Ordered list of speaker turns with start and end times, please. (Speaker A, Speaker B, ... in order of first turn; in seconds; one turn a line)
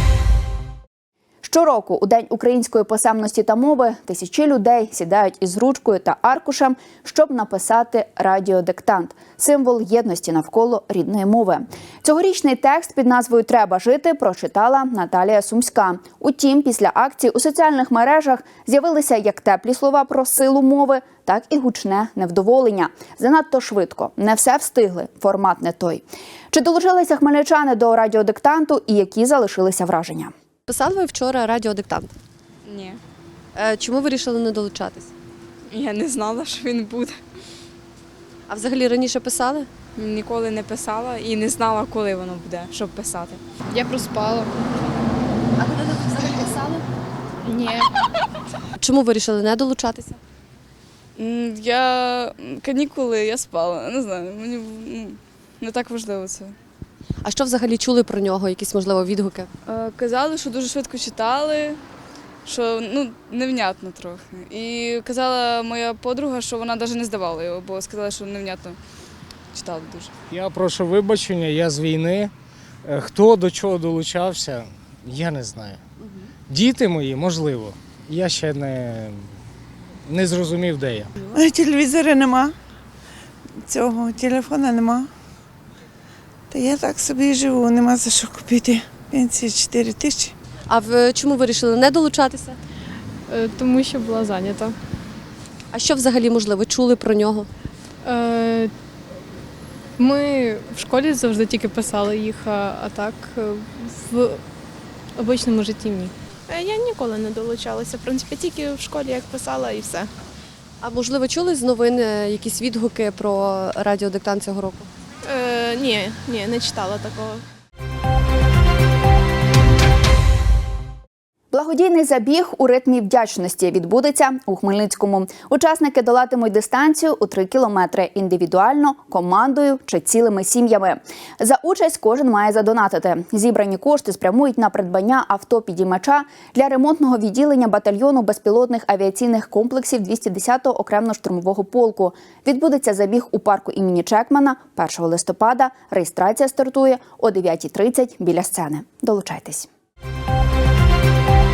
Speaker A: 1.4-30.3
Speaker B: 30.7-32.1
Speaker C: 32.7-33.0
Speaker B: 33.6-35.0
Speaker C: 35.7-37.2
Speaker B: 38.5-39.7
Speaker C: 40.0-44.5
Speaker C: 45.6-46.8
Speaker C: 47.5-47.9
Speaker B: 48.8-50.1
Speaker C: 51.2-56.6
Speaker B: 57.2-59.5
Speaker C: 59.6-61.8
Speaker C: 62.5-68.8
Speaker C: 69.5-70.1
Speaker D: 70.3-72.3
Speaker D: 72.8-75.8
Speaker D: 76.5-79.2
Speaker D: 80.1-81.1
Speaker E: 81.3-82.5
Speaker E: 83.6-85.1
Speaker E: 86.5-90.3
Speaker B: 90.7-92.5
Speaker F: 93.3-94.7
Speaker B: 95.7-97.5
Speaker F: 98.0-98.7
Speaker F: 100.0-104.3
Speaker F: 105.2-106.1
Speaker G: 106.5-110.1
Speaker B: 110.8-114.8
Speaker G: 115.3-117.4
Speaker A: 121.5-149.7